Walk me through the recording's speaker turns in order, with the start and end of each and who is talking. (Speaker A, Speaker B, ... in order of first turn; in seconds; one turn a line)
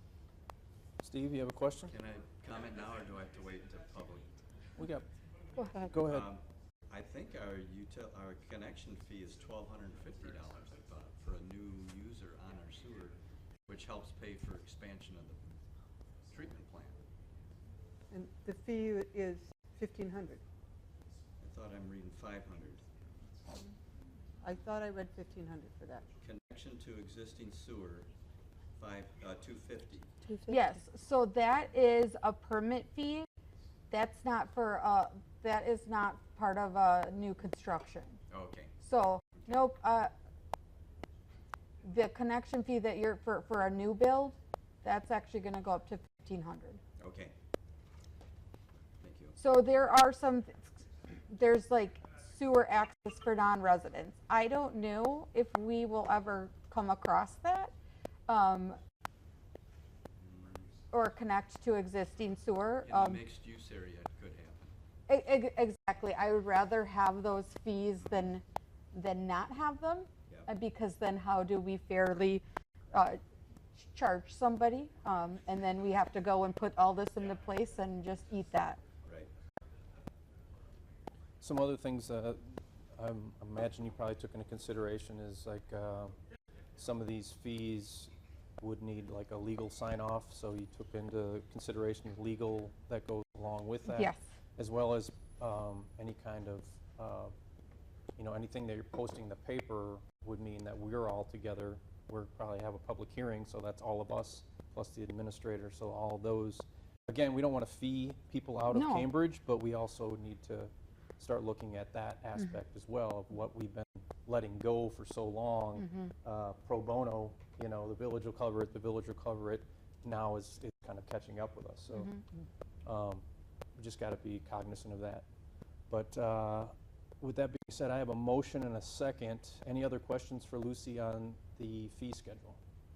Speaker A: 1.0-2.0
Speaker B: 1.9-4.3
Speaker A: 4.8-5.1
Speaker C: 5.6-5.9
Speaker A: 5.9-6.3
Speaker B: 6.0-15.5
Speaker B: 16.3-17.0
Speaker D: 18.1-20.4
Speaker B: 21.4-22.9
Speaker D: 24.4-26.1
Speaker B: 26.2-28.1
Speaker B: 28.8-30.1
Speaker C: 30.5-33.3
Speaker C: 33.9-38.2
Speaker B: 38.3-38.7
Speaker C: 38.8-40.1
Speaker C: 41.8-46.8
Speaker B: 47.0-47.4
Speaker B: 49.0-49.4
Speaker C: 49.4-57.7
Speaker C: 58.3-58.8
Speaker B: 60.1-60.7
Speaker C: 60.9-63.2
Speaker B: 62.8-64.7
Speaker C: 65.1-73.2
Speaker B: 68.0-68.3
Speaker C: 73.8-78.8
Speaker B: 79.0-79.3
Speaker A: 81.4-86.2
Speaker A: 86.8-97.3
Speaker C: 93.9-94.2
Speaker A: 98.2-122.1
Speaker C: 108.7-109.1
Speaker C: 115.8-116.1
Speaker C: 121.9-122.2
Speaker A: 122.8-123.2
Speaker A: 123.8-125.3
Speaker A: 125.9-132.6